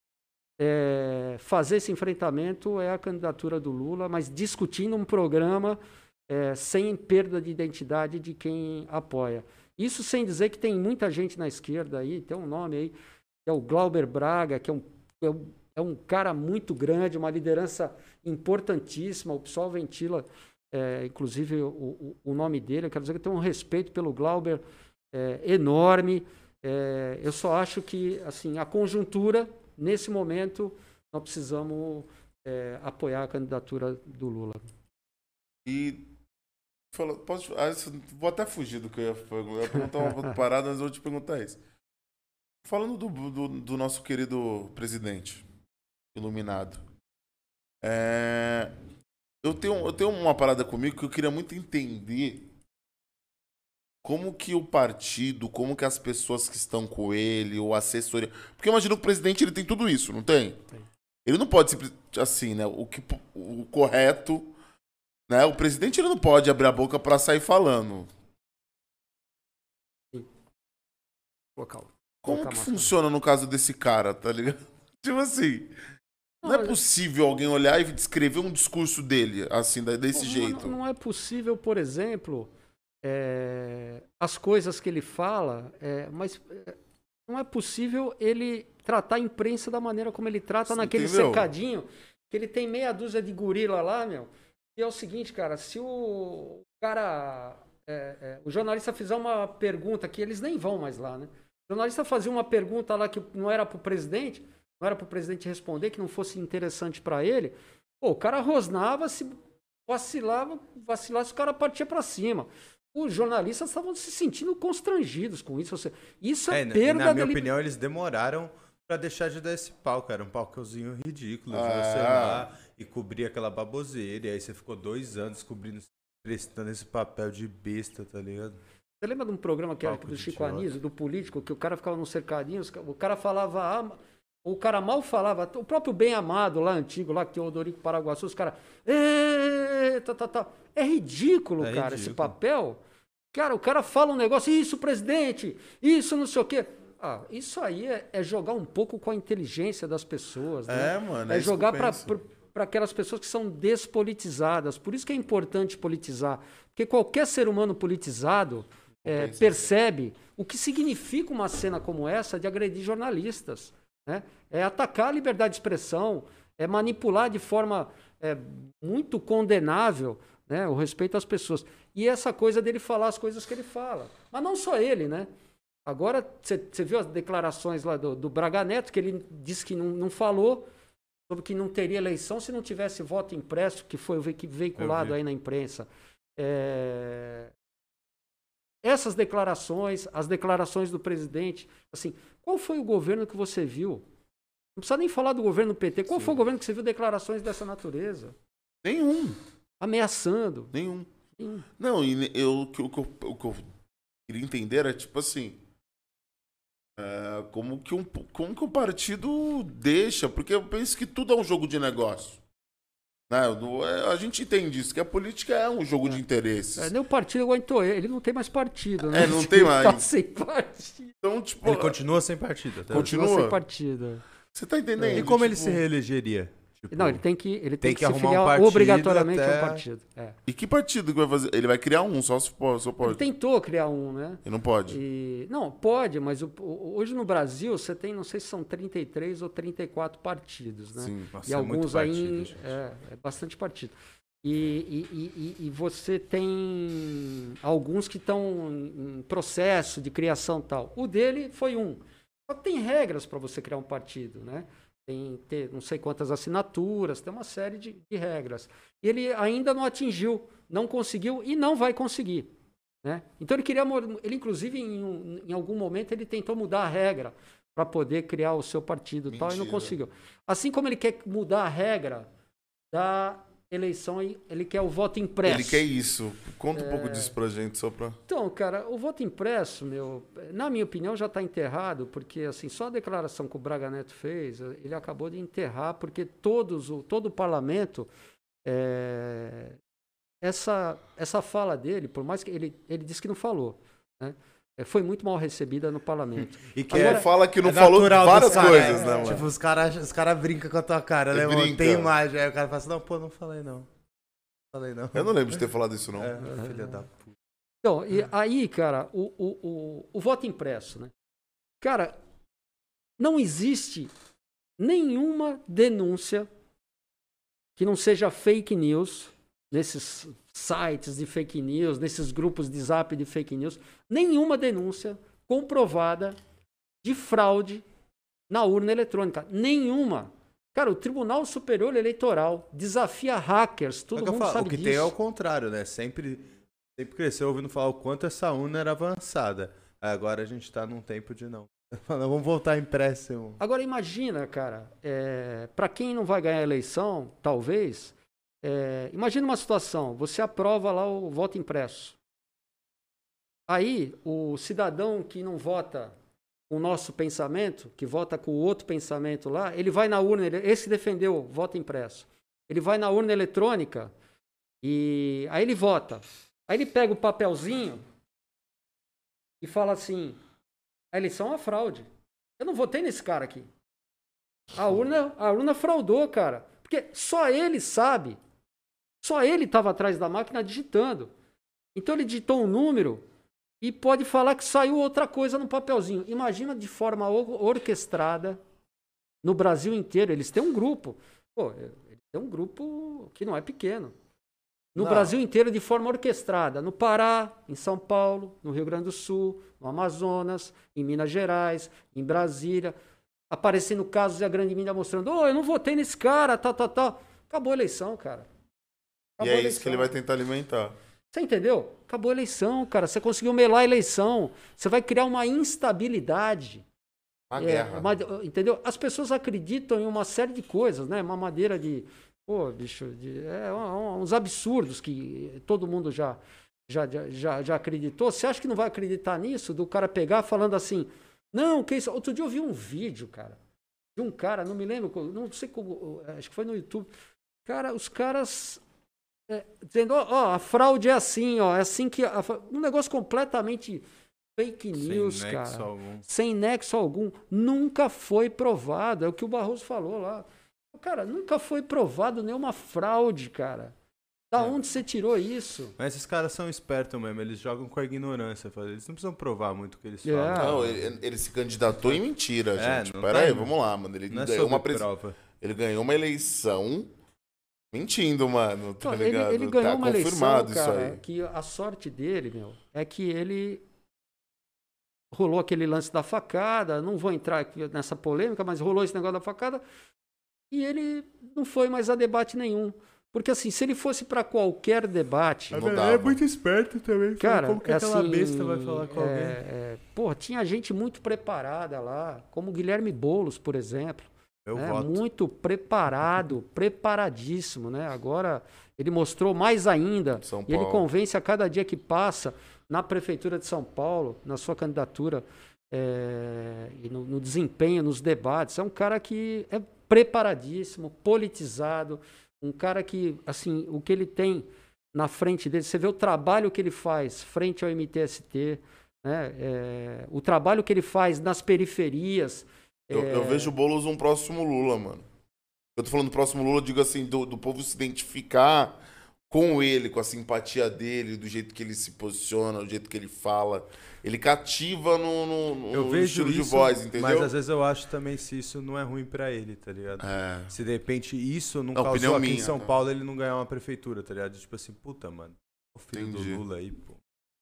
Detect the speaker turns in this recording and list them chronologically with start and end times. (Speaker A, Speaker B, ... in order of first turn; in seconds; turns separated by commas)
Speaker A: 0.6-12.9, Speaker A: 13.4-34.6, Speaker B: 35.6-36.1, Speaker B: 36.9-41.6, Speaker A: 39.7-40.4, Speaker B: 42.6-45.5, Speaker B: 46.1-46.8, Speaker B: 47.8-48.7, Speaker B: 49.4-52.5, Speaker B: 54.0-60.6, Speaker B: 61.2-64.5, Speaker B: 65.3-68.1, Speaker A: 71.5-72.9, Speaker B: 72.2-75.7, Speaker A: 76.4-76.8, Speaker B: 76.4-80.8, Speaker A: 80.2-82.5, Speaker A: 83.0-86.7, Speaker A: 87.3-109.3, Speaker B: 90.7-91.5, Speaker A: 109.9-117.4, Speaker C: 116.5-128.6, Speaker B: 121.5-122.5, Speaker A: 129.0-142.8, Speaker C: 129.8-130.7, Speaker C: 141.6-142.3, Speaker A: 143.3-175.3, Speaker B: 150.7-152.1, Speaker B: 159.0-159.5, Speaker A: 175.8-180.7, Speaker A: 181.3-187.5, Speaker C: 184.8-185.2, Speaker A: 188.8-194.0, Speaker A: 194.8-198.3, Speaker B: 198.8-199.4, Speaker A: 199.8-200.7, Speaker B: 200.7-201.1, Speaker A: 201.3-201.7, Speaker B: 201.8-203.7, Speaker B: 204.3-205.6, Speaker B: 206.9-212.4, Speaker B: 213.3-216.9, Speaker A: 216.8-221.1, Speaker B: 219.0-220.1, Speaker B: 221.2-222.0, Speaker C: 221.6-223.1, Speaker B: 222.9-223.6, Speaker A: 222.9-224.2, Speaker B: 224.5-225.8, Speaker A: 225.0-225.2, Speaker C: 225.1-227.2, Speaker A: 226.9-230.4, Speaker C: 227.8-229.8, Speaker B: 230.5-233.2, Speaker A: 233.0-262.5, Speaker B: 234.4-235.0, Speaker B: 241.0-241.3, Speaker C: 241.3-242.7, Speaker A: 263.0-272.3, Speaker B: 269.3-269.9, Speaker A: 272.9-275.8, Speaker B: 275.4-278.2, Speaker A: 276.7-277.3, Speaker A: 278.3-288.1, Speaker A: 288.6-289.8, Speaker A: 290.4-297.2, Speaker C: 296.6-303.9, Speaker B: 296.9-299.5, Speaker A: 298.5-299.4, Speaker B: 301.3-302.1, Speaker C: 304.7-305.6, Speaker B: 305.1-306.4, Speaker C: 306.2-307.3, Speaker A: 306.4-307.0, Speaker A: 307.8-311.1, Speaker A: 311.8-312.1, Speaker A: 313.2-314.1, Speaker A: 314.8-316.5, Speaker A: 317.8-326.4, Speaker A: 327.0-327.8, Speaker A: 328.5-335.1, Speaker C: 334.1-343.6, Speaker A: 343.6-352.2, Speaker A: 353.7-356.1, Speaker A: 356.7-364.1, Speaker A: 364.8-368.0, Speaker A: 369.6-370.4, Speaker A: 371.1-373.7, Speaker A: 374.7-378.4, Speaker A: 379.2-381.3, Speaker A: 381.9-383.2, Speaker A: 383.8-388.6, Speaker A: 389.4-394.1, Speaker A: 394.9-402.9, Speaker B: 395.0-395.3, Speaker A: 403.5-408.5, Speaker A: 409.4-410.1, Speaker B: 409.4-410.9, Speaker A: 411.3-416.8, Speaker B: 417.5-418.1, Speaker A: 417.6-433.6, Speaker A: 434.1-437.1, Speaker A: 437.6-438.8, Speaker A: 439.5-444.0, Speaker A: 444.6-453.9, Speaker C: 445.0-446.2, Speaker A: 454.5-455.9, Speaker C: 456.0-461.0, Speaker A: 460.2-460.8, Speaker B: 460.6-465.1, Speaker C: 462.8-463.7, Speaker C: 464.3-465.4, Speaker B: 465.6-467.1, Speaker B: 467.9-471.2, Speaker A: 469.0-473.8, Speaker A: 475.3-479.8, Speaker A: 480.7-485.8, Speaker B: 485.7-486.4, Speaker C: 485.7-489.6, Speaker A: 487.4-523.7, Speaker C: 494.6-495.2, Speaker B: 500.4-501.0, Speaker B: 523.1-525.2, Speaker B: 526.0-529.0, Speaker B: 529.5-537.5, Speaker C: 535.9-547.2, Speaker B: 540.2-540.7, Speaker B: 541.9-542.9, Speaker B: 546.1-546.6